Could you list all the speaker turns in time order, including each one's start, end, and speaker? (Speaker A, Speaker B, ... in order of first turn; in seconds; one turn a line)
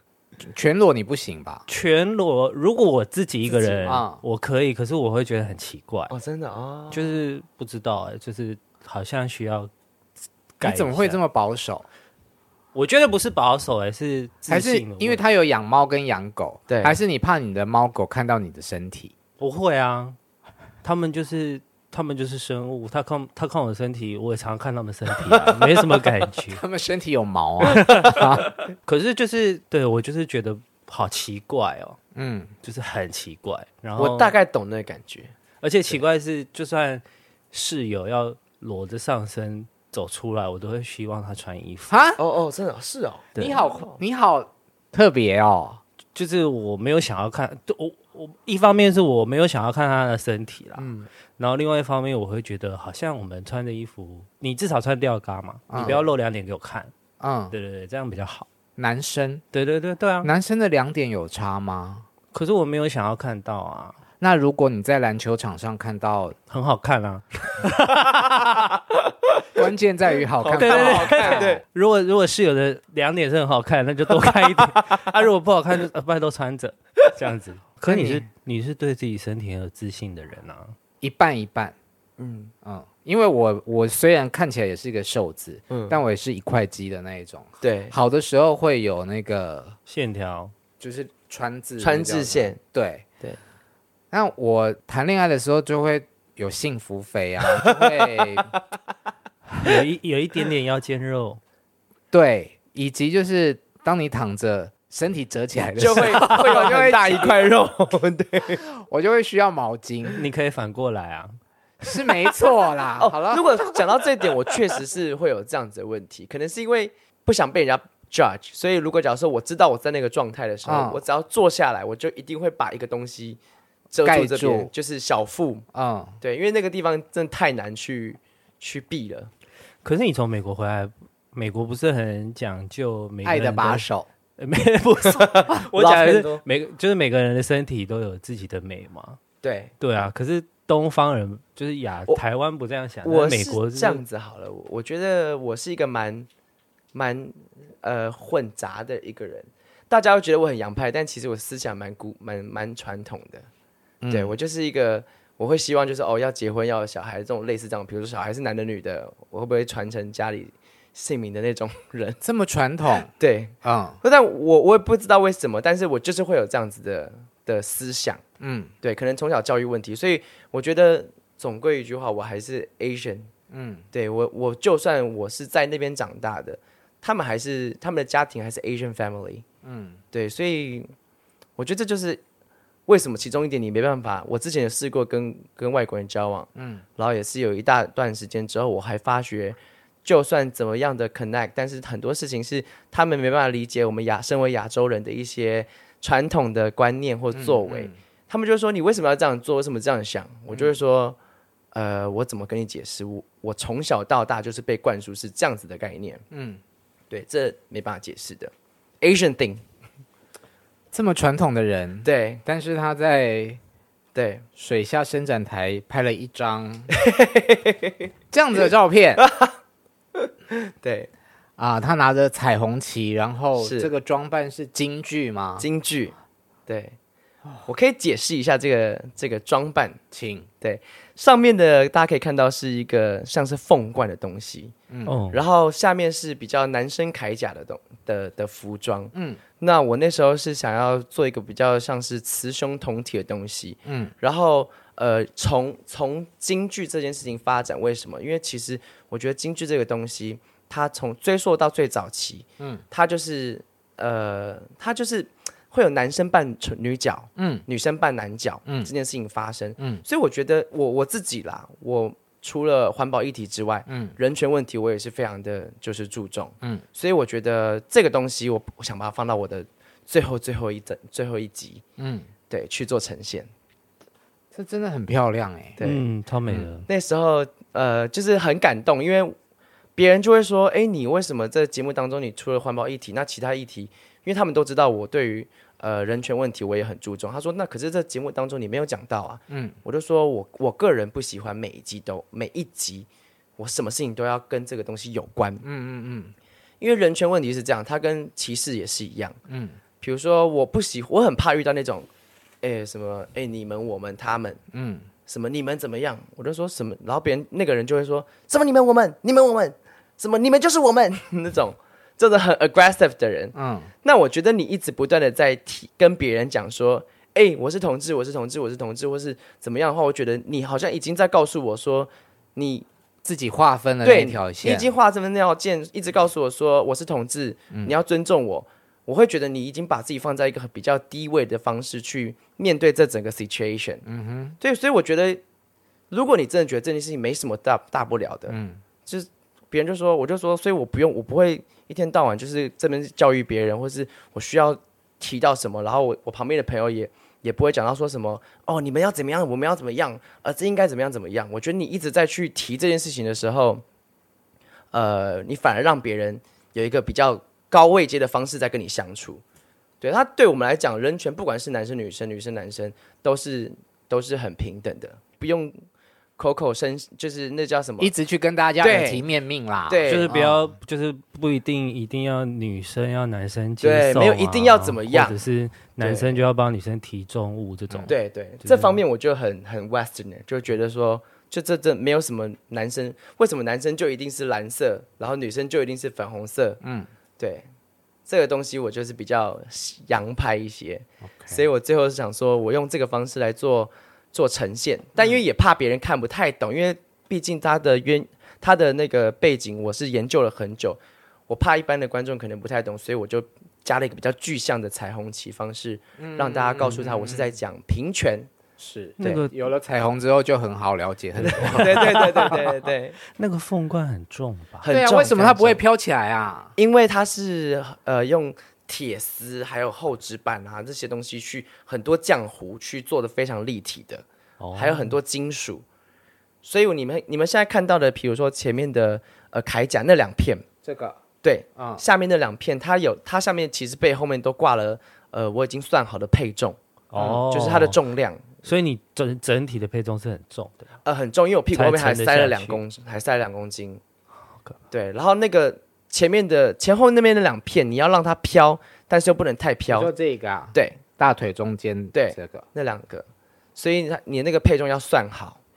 Speaker A: 0.4-1.6
Speaker B: 1.7-6.1
Speaker A: 3.6-4.2
Speaker C: 6.1-7.1
Speaker B: 6.9-9.7
Speaker B: 10.6-11.2
Speaker A: 10.6-11.8
Speaker B: 12.7-15.2
Speaker A: 14.5-19.1
Speaker C: 16.7-16.9
Speaker B: 19.4-20.2
Speaker B: 20.8-26.6
Speaker C: 25.3-25.7
Speaker A: 26.5-28.5
Speaker B: 27.6-32.0
Speaker A: 32.1-32.5
Speaker B: 32.6-34.3
Speaker C: 34.0-35.3
Speaker B: 35.6-41.9
Speaker A: 41.9-42.2
Speaker C: 42.2-44.0
Speaker A: 43.4-45.8
Speaker B: 46.1-56.9
Speaker A: 55.7-56.0
Speaker A: 57.2-57.5
Speaker B: 57.5-58.5
Speaker A: 58.8-59.4
Speaker B: 59.5-60.3
Speaker A: 60.2-62.0
Speaker B: 62.3-64.0
Speaker A: 64.2-66.3
Speaker B: 66.5-68.7
Speaker A: 69.5-71.5
Speaker C: 70.4-71.6
Speaker B: 70.6-80.7
Speaker A: 77.8-78.2
Speaker A: 81.0-81.7
Speaker C: 82.2-82.5
Speaker A: 82.6-89.8
Speaker C: 85.7-86.0
Speaker C: 87.6-88.0
Speaker B: 89.9-90.5
Speaker A: 90.8-93.0
Speaker C: 91.8-92.6
Speaker A: 94.1-98.5
Speaker C: 97.5-98.6
Speaker B: 99.6-101.4
Speaker A: 102.1-107.5
Speaker C: 105.8-108.6
Speaker A: 108.7-110.2
Speaker B: 110.1-111.4
Speaker A: 111.8-113.8
Speaker C: 113.0-123.4
Speaker A: 120.7-121.0
Speaker C: 123.9-125.7
Speaker A: 124.0-124.7
Speaker A: 125.7-126.2
Speaker C: 126.2-129.3
Speaker B: 129.8-133.8
Speaker A: 133.2-134.1
Speaker B: 134.4-139.2
Speaker C: 135.0-136.4
Speaker C: 139.4-139.7
Speaker B: 139.8-144.0
Speaker C: 143.0-146.3
Speaker C: 146.9-153.5
Speaker A: 154.0-154.3
Speaker C: 154.1-162.2
Speaker A: 162.2-163.1
Speaker C: 163.2-168.2
Speaker A: 163.6-164.0
Speaker A: 168.4-168.7
Speaker C: 168.8-173.3
Speaker A: 173.5-173.8
Speaker C: 173.9-179.4
Speaker A: 179.6-180.0
Speaker C: 180.1-180.9
Speaker C: 181.6-182.2
Speaker C: 182.9-201.2
Speaker A: 186.5-186.8
Speaker A: 197.3-197.9
Speaker C: 201.7-206.2
Speaker A: 206.3-206.6
Speaker C: 207.1-209.6
Speaker A: 210.9-213.6
Speaker C: 212.0-212.4
Speaker C: 214.1-214.4
Speaker A: 214.6-216.9
Speaker C: 216.9-218.1
Speaker A: 218.3-219.2
Speaker C: 219.2-219.6
Speaker C: 220.1-221.1
Speaker A: 221.6-225.7
Speaker C: 223.6-223.9
Speaker C: 225.6-226.1
Speaker C: 226.7-226.9
Speaker C: 227.7-230.0
Speaker A: 230.1-230.5
Speaker C: 230.6-234.7
Speaker A: 234.9-235.2
Speaker B: 235.1-235.4
Speaker C: 235.3-271.8
Speaker A: 239.1-239.4
Speaker A: 243.8-244.1
Speaker A: 257.4-257.6
Speaker A: 259.8-260.0
Speaker A: 263.9-264.1
Speaker A: 272.0-272.3
Speaker C: 272.5-273.5
Speaker A: 274.5-275.8
Speaker C: 275.8-276.0
Speaker B: 275.8-276.9
Speaker C: 276.9-279.3
Speaker C: 280.0-295.6
Speaker A: 289.5-289.8
Speaker A: 295.6-296.3
Speaker C: 296.8-299.4
Speaker A: 299.5-299.8
Speaker C: 300.0-302.1
Speaker C: 302.6-304.6
Speaker A: 304.7-305.1
Speaker C: 305.3-322.9
Speaker A: 313.5-313.9
Speaker A: 323.2-324.9
Speaker C: 324.0-334.0
Speaker A: 334.1-334.6
Speaker C: 334.6-335.4
Speaker C: 336.1-353.8
Speaker A: 338.5-338.8
Speaker C: 354.9-359.4
Speaker C: 360.0-365.8
Speaker C: 366.4-368.1
Speaker A: 368.0-370.7
Speaker C: 368.8-369.2
Speaker C: 369.9-370.3
Speaker B: 370.1-379.0
Speaker C: 373.8-375.4
Speaker C: 376.0-376.4
Speaker C: 378.1-386.8
Speaker A: 386.8-387.1
Speaker C: 387.4-387.7
Speaker C: 388.3-408.5
Speaker A: 391.3-391.6
Speaker A: 406.2-407.5
Speaker A: 408.8-412.5
Speaker B: 409.2-409.5
Speaker C: 411.4-413.2
Speaker B: 411.4-412.8
Speaker B: 413.3-414.9
Speaker C: 414.8-415.8
Speaker A: 414.9-416.7
Speaker C: 416.8-424.2
Speaker B: 424.6-425.1
Speaker C: 424.7-425.8
Speaker C: 426.6-430.6
Speaker A: 430.8-431.2
Speaker C: 431.4-438.4
Speaker A: 431.8-432.0
Speaker B: 437.1-438.0
Speaker B: 438.6-440.9
Speaker C: 441.0-444.0
Speaker B: 441.7-442.8
Speaker C: 444.9-450.1
Speaker A: 449.9-452.6
Speaker C: 450.7-451.0
Speaker C: 452.1-455.6